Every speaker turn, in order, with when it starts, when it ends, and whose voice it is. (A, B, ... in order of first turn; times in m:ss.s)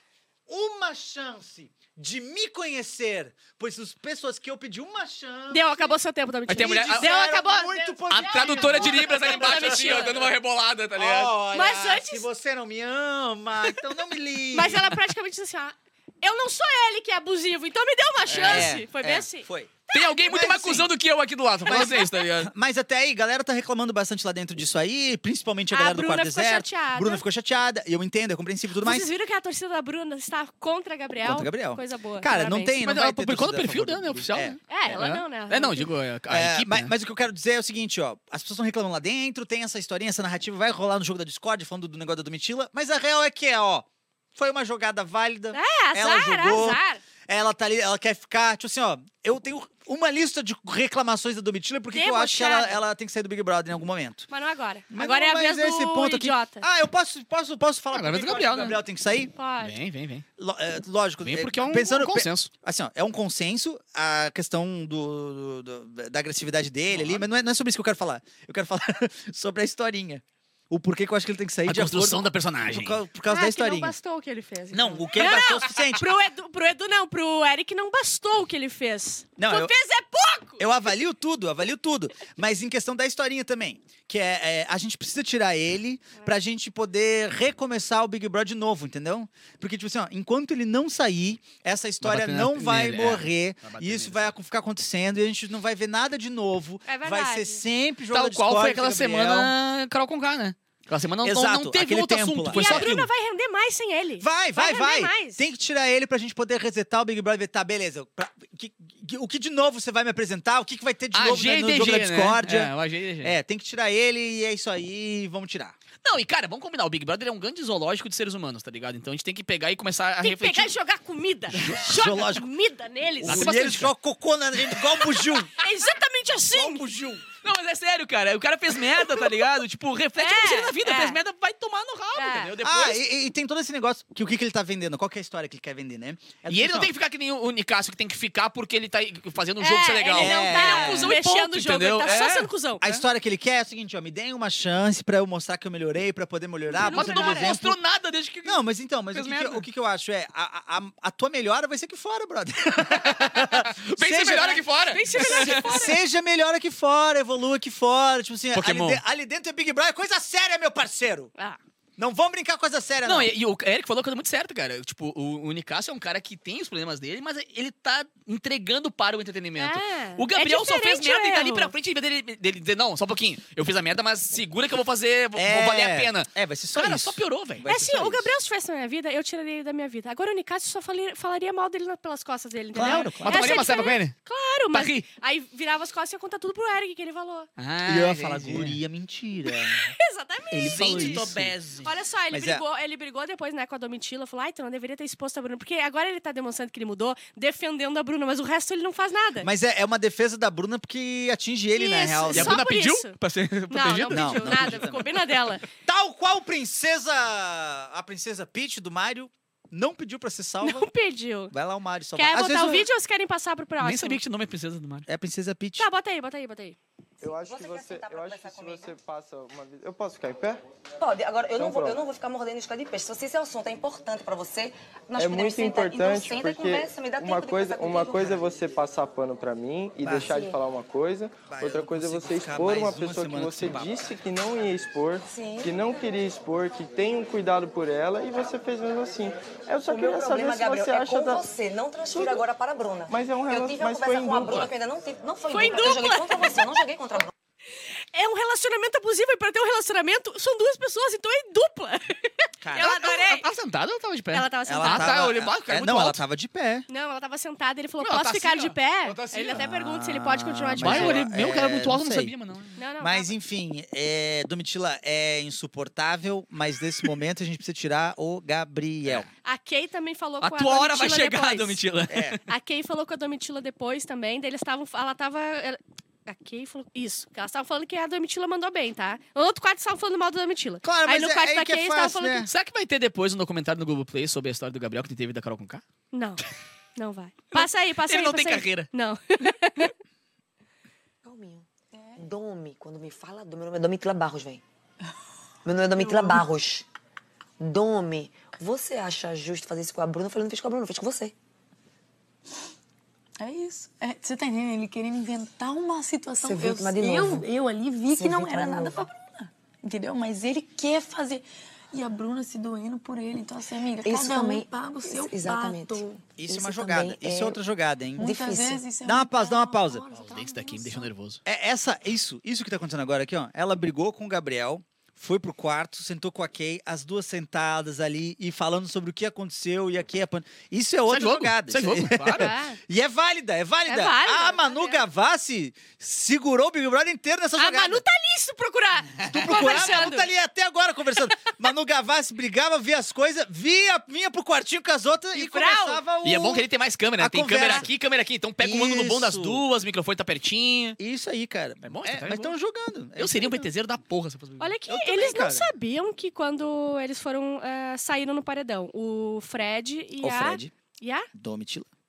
0:00.5-0:05.9 A
0:05.5-0:10.2 B
0:06.5-0:07.2 C
0:06.5-0:10.3 A
0:08.1-0:11.3 C
0:10.9-0:14.9 A
0:11.5-0:12.2 B
0:14.5-0:20.2 B
0:18.3-0:18.7 C
0:18.3-0:20.9 A
0:19.9-0:22.5 C
0:21.6-0:29.1 A
0:21.7-0:22.1 B
0:25.7-0:27.2 B
0:28.8-0:32.7 B
0:31.2-0:34.6 A
0:32.8-0:36.9 C
0:34.7-0:35.9 B
0:36.3-0:54.3 A
0:45.5-0:47.0 B
0:51.9-0:52.8 B
0:54.3-0:56.6 B
0:54.9-0:59.3 A
0:57.9-0:58.8 C
0:59.3-0:59.7 B
0:59.6-1:00.2 C
1:00.4-1:13.9 A
1:01.2-1:02.5 C
1:06.9-1:07.2 C
1:11.6-1:13.0 C
1:13.3-1:20.6 B
1:14.7-1:16.1 A
1:19.4-1:19.7 A
1:20.6-1:39.5 A
1:32.0-1:34.3 C
1:36.8-1:37.6 B
1:38.1-1:43.1 C
1:41.2-1:42.9 A
1:42.5-1:45.4 B
1:44.2-1:55.8 A
1:51.1-1:53.3 C
1:56.0-2:00.7 C
2:00.2-2:03.6 B
2:01.6-2:02.5 A
2:03.2-2:05.5 A
2:03.2-2:03.9 C
2:05.6-2:06.8 B
2:06.5-2:07.2 A
2:07.3-2:13.0 C
2:08.9-2:09.3 B
2:10.2-2:11.2 B
2:12.2-2:12.5 B
2:12.6-2:16.9 A
2:16.5-2:22.5 C
2:19.6-2:22.8 B
2:20.1-2:21.2 A
2:22.8-2:27.8 A
2:26.7-2:27.5 B
2:26.8-2:28.6 C
2:28.4-2:41.3 A
2:29.1-2:29.6 C
2:33.0-2:35.8 C
2:34.9-2:36.0 B
2:38.5-2:39.0 C
2:42.0-2:43.3 A
2:43.0-2:58.2 C
2:49.6-2:51.7 B
2:55.4-2:58.2 A
2:57.6-3:07.5 B
3:02.7-3:03.7 A
3:02.8-3:04.1 C
3:04.7-3:05.0 C
3:07.6-3:08.8 C
3:07.8-3:09.9 A
3:09.5-3:11.3 B
3:10.5-3:11.5 A
3:10.6-3:11.9 C
3:11.8-3:19.5 B
3:12.3-3:12.6 A
3:19.4-3:22.6 A
3:21.7-3:23.2 B
3:22.3-3:25.0 C
3:23.7-3:25.6 B
3:24.1-3:25.1 A
3:25.8-3:30.9 A
3:30.6-3:31.5 B
3:31.5-3:32.9 A
3:32.1-3:34.2 B
3:33.8-3:35.1 C
3:35.0-3:35.9 A
3:35.8-3:36.8 B
3:37.2-3:40.6 D
3:37.2-3:38.9 E
3:41.0-3:48.4 E
3:41.5-3:42.0 D
3:45.2-4:01.4 D
3:50.0-3:50.3 A
3:50.2-3:50.6 E
3:51.5-3:54.1 A
3:55.3-3:55.7 E
3:59.8-4:07.3 E
4:02.1-4:02.4 D
4:03.1-4:04.7 D
4:05.5-4:06.6 B
4:08.1-4:13.5 B
4:12.6-4:13.0 A
4:12.8-4:16.2 C
4:14.3-4:15.2 B
4:14.6-4:16.9 A
4:16.9-4:21.2 B
4:18.0-4:19.6 C
4:19.5-4:22.3 A
4:20.8-4:22.8 C
4:22.8-4:23.3 B
4:23.0-4:29.3 A
4:29.4-4:31.8 B
4:30.4-4:32.4 C
4:32.1-4:32.4 A
4:32.5-4:42.4 B
4:40.8-4:42.5 A
4:42.4-4:45.8 C
4:46.1-4:46.4 B
4:47.0-4:49.9 B
4:47.5-4:48.9 C
4:51.2-4:54.6 E
4:55.6-4:56.8 E
4:57.6-5:01.3 E
5:03.4-5:16.2 F
5:06.4-5:07.5 E
5:08.1-5:09.0 E
5:14.0-5:17.6 E
5:16.4-5:18.2 A
5:18.2-5:21.1 F
5:18.2-5:18.9 E
5:19.0-5:20.0 A
5:20.1-5:21.4 C
5:21.4-5:38.0 A
5:31.1-5:32.5 C
5:32.3-5:32.8 B
5:33.9-5:35.0 B
5:37.6-5:40.3 B
5:39.2-5:39.9 C
5:39.2-5:46.6 A
5:45.3-5:46.0 B
5:46.2-5:51.0 C
5:47.2-5:47.9 A
5:48.6-5:49.6 A
5:51.0-5:53.7 A
5:51.8-5:52.5 C
5:53.2-5:54.7 C
5:54.6-6:01.3 B
5:54.9-5:55.7 A
6:00.2-6:00.7 A
6:01.3-6:01.9 A